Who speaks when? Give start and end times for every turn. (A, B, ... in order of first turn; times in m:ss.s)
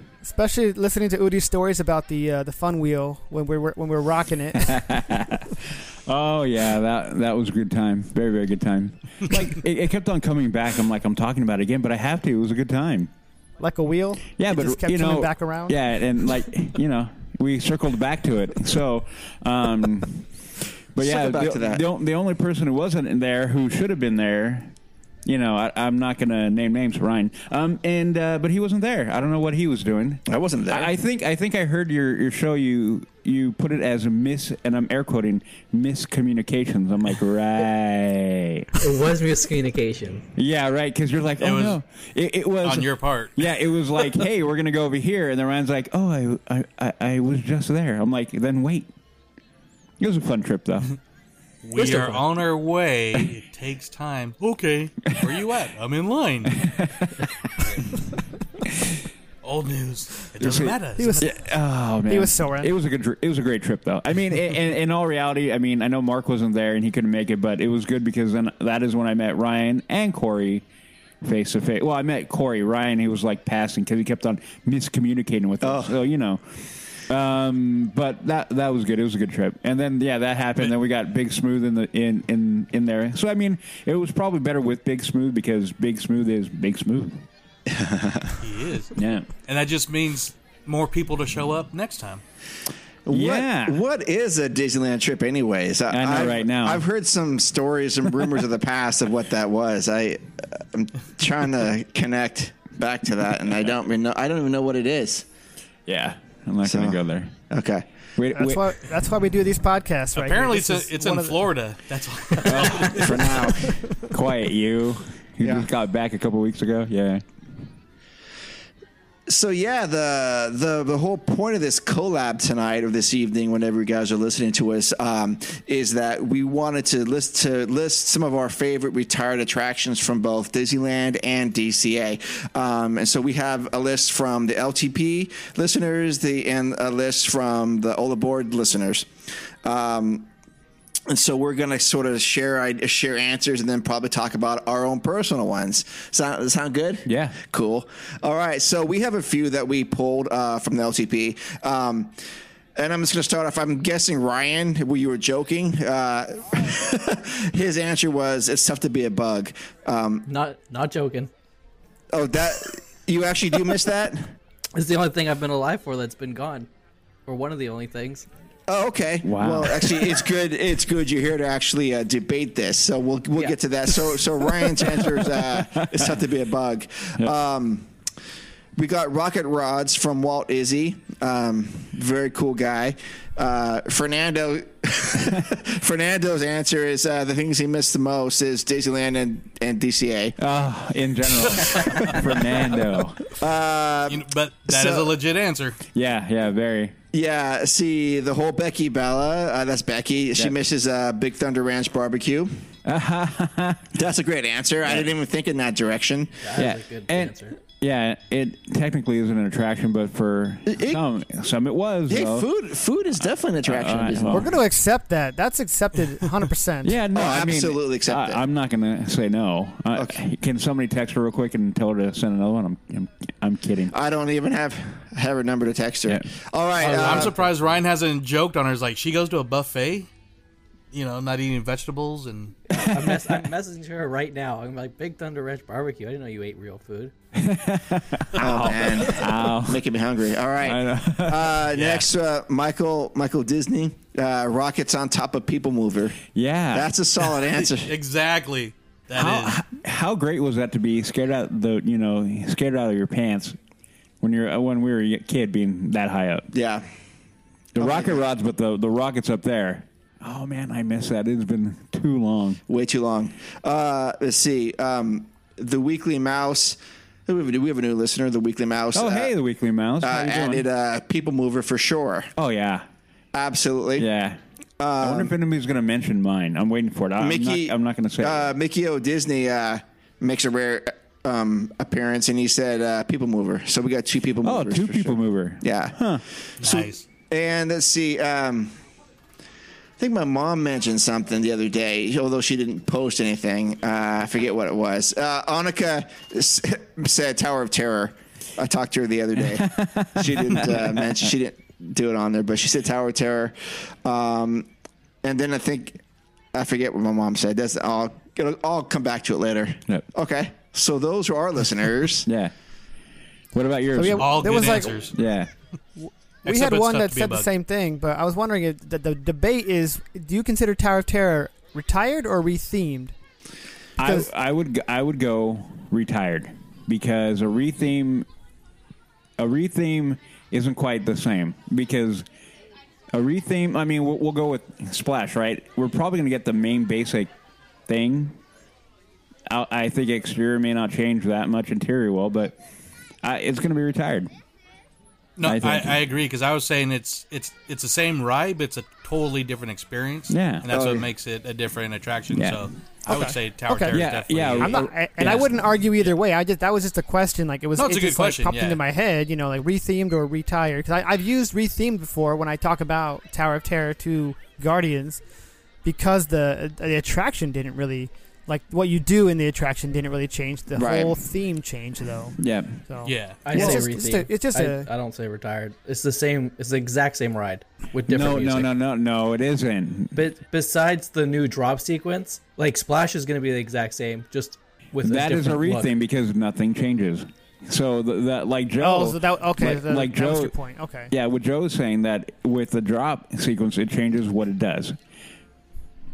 0:00.2-0:05.1 A
0:04.6-0:05.5 B
0:06.1-0:13.1 B
0:13.6-0:15.8 A
0:14.4-0:20.3 B
0:21.0-0:24.7 B
0:21.0-0:21.8 C
0:25.2-0:38.7 B
0:30.3-0:30.9 C
0:38.8-0:40.2 D
0:40.4-0:48.9 B
0:41.4-0:41.8 E
0:42.6-0:43.4 E
0:50.0-0:50.9 B
0:51.6-0:56.6 E
0:51.8-0:52.2 D
0:56.4-0:57.3 B
0:57.6-0:57.9 E
0:59.4-1:01.3 E
1:00.4-1:10.6 B
1:01.0-1:01.4 A
1:02.1-1:02.7 A
1:11.2-1:27.3 B
1:15.6-1:15.9 C
1:27.7-1:28.4 C
1:28.4-1:28.9 E
1:29.0-1:29.3 B
1:29.4-1:32.2 E
1:33.1-1:45.3 C
1:33.1-1:33.8 B
1:35.9-1:36.8 B
1:45.9-1:47.3 B
1:46.6-1:47.9 C
1:48.2-1:48.7 B
1:48.3-1:51.4 A
1:50.1-1:53.2 E
1:52.4-1:53.1 A
1:52.4-1:53.2 B
1:53.0-1:53.7 C
1:54.1-1:57.2 B
1:59.3-2:19.1 C
2:19.6-2:20.3 C
2:21.1-2:32.1 C
2:27.1-2:27.4 B
2:32.8-2:40.3 C
2:40.3-2:41.3 D
2:42.1-2:44.3 C
2:44.8-2:46.7 D
2:47.3-2:48.3 D
2:48.7-2:57.9 C
2:49.2-2:50.1 B
2:55.0-2:56.1 B
2:58.8-3:10.4 C
3:10.4-3:13.2 B
3:11.8-3:12.1 C
3:13.3-3:15.1 C
3:14.1-3:15.8 E
3:15.9-3:17.0 B
3:17.1-3:22.5 C
3:22.8-3:24.0 B
3:23.9-3:26.3 C
3:24.8-3:25.1 B
3:26.4-3:27.6 D
3:26.6-3:32.5 B
3:30.7-3:31.0 C
3:32.1-3:34.6 C
3:33.6-3:34.5 B
3:34.3-3:37.0 A
3:36.8-3:43.9 B
3:37.1-3:38.4 C
3:43.9-3:47.3 C
3:46.8-3:47.7 D
3:46.8-3:50.1 E
3:50.9-3:52.6 E
3:52.7-3:57.1 D
3:52.8-3:53.4 B
3:57.3-3:59.9 B
3:58.4-4:06.2 C
4:00.6-4:01.6 B
4:01.7-4:02.1 E
4:06.3-4:06.9 B
4:06.7-4:07.9 C
4:07.9-4:09.6 E
4:09.1-4:13.6 B
4:14.2-4:16.5 B
4:16.5-4:16.8 C
4:17.8-4:22.6 B
4:17.8-4:18.2 C
4:22.7-4:29.3 C
4:28.9-4:30.6 B
4:30.0-4:32.3 C
4:32.4-4:32.8 B
4:33.3-4:34.1 C
4:34.0-4:34.4 B
4:34.8-4:35.3 C
4:35.0-4:38.6 B
4:37.2-4:46.0 C
4:44.4-4:46.2 B
4:46.6-4:47.0 E
4:46.6-4:48.8 C
4:50.0-5:04.7 C
4:59.4-5:01.3 B
5:05.2-5:06.0 C
5:06.5-5:12.3 C
5:12.3-5:12.5 B
5:13.5-5:14.6 B
5:13.9-5:15.0 A
5:14.2-5:15.1 E
5:15.1-5:15.5 B
5:16.0-5:23.1 A
5:16.4-5:17.5 E
5:24.0-5:28.3 B
5:24.0-5:24.3 A
5:29.4-5:32.2 B
5:33.1-5:37.3 B
5:37.9-5:38.4 B
5:39.5-5:42.6 B
5:43.2-5:44.3 B
5:45.4-5:54.9 E
5:45.4-5:46.0 B
5:50.3-5:50.9 B
5:50.7-5:51.0 C
5:52.3-5:52.7 B
5:53.1-5:54.0 A
5:53.9-5:55.8 B
5:54.6-6:05.2 A
5:57.8-5:58.8 E
6:05.8-6:14.9 A
6:10.7-6:11.2 C
6:12.4-6:12.8 B
6:13.0-6:13.4 E
6:13.4-6:18.7 D
6:18.1-6:20.2 B
6:20.1-6:25.9 D
6:25.0-6:30.5 B
6:28.8-6:31.1 A
6:31.1-6:35.0 B